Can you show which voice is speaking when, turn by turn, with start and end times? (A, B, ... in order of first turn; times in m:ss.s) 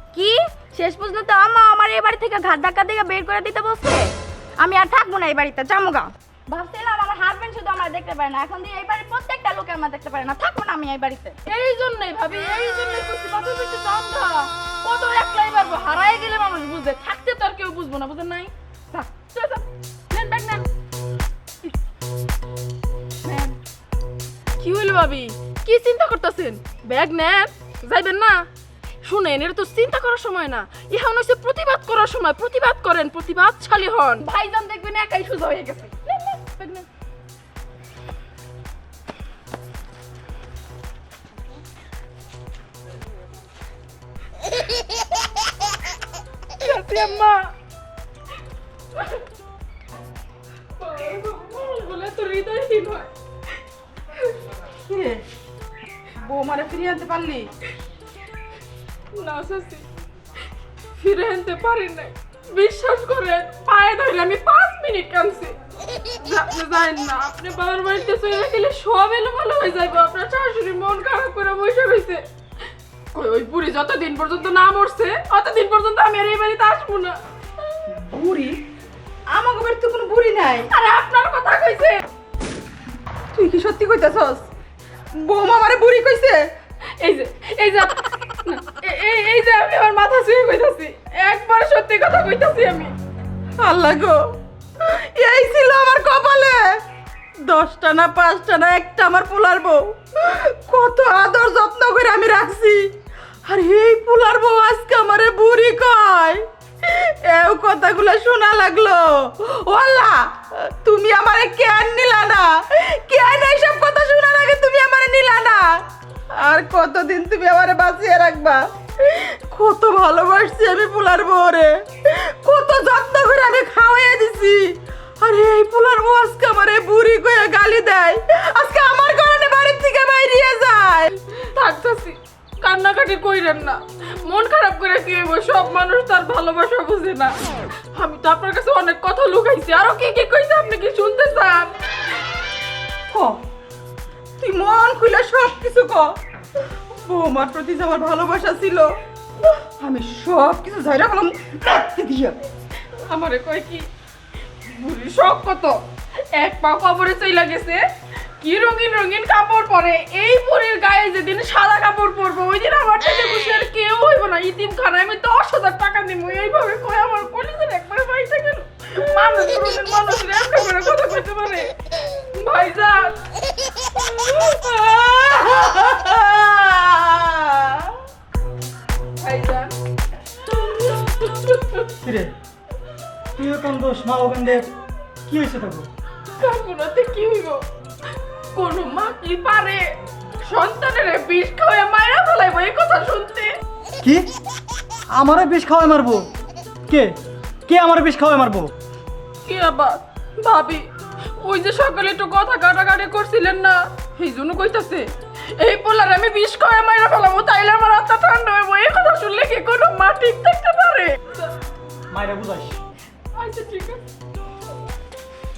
0:00.1-0:11.4 A
0:11.5-0:20.6 B
0:23.2-0:23.6 B
0:24.6-0:28.4 B
0:29.0-0:36.9 B
0:46.6-0:47.5 B
0:49.0-0:49.2 B
0:50.8-0:53.1 B
0:54.9-0:55.2 C
0:56.3-0:57.5 C
0:56.3-0:57.4 A
0:59.1-0:59.8 B
1:01.0-1:05.6 B
1:06.2-1:12.2 B
1:13.1-1:17.2 B
1:17.9-1:18.6 C
1:19.3-1:20.7 C
1:20.7-1:22.0 B
1:23.3-1:24.5 C
1:25.2-1:26.4 C
1:27.0-1:32.9 B
1:33.6-1:34.2 C
1:34.8-1:36.8 C
1:37.4-1:42.9 C
1:43.5-1:55.8 C
1:56.3-2:11.1 C
2:11.3-2:17.4 B
2:17.9-2:21.7 B
2:23.1-2:23.4 C
2:24.4-2:26.1 C
2:26.9-2:28.9 C
2:29.8-2:32.4 C
2:33.0-2:33.9 B
2:34.6-2:35.8 B
2:36.3-2:37.8 B
2:38.4-2:51.7 B
2:52.3-2:53.3 B
2:54.0-2:57.8 B
2:59.2-2:59.8 B
3:00.5-3:01.9 B
3:02.0-3:02.3 D
3:03.4-3:04.7 D
3:05.3-3:05.9 D
3:06.3-3:07.6 B
3:08.5-3:13.5 B
3:14.0-3:14.3 D
3:15.1-3:16.3 D
3:16.9-3:18.7 D
3:19.4-3:20.8 B
3:21.4-3:31.5 B
3:32.1-3:32.8 D
3:33.3-3:34.0 B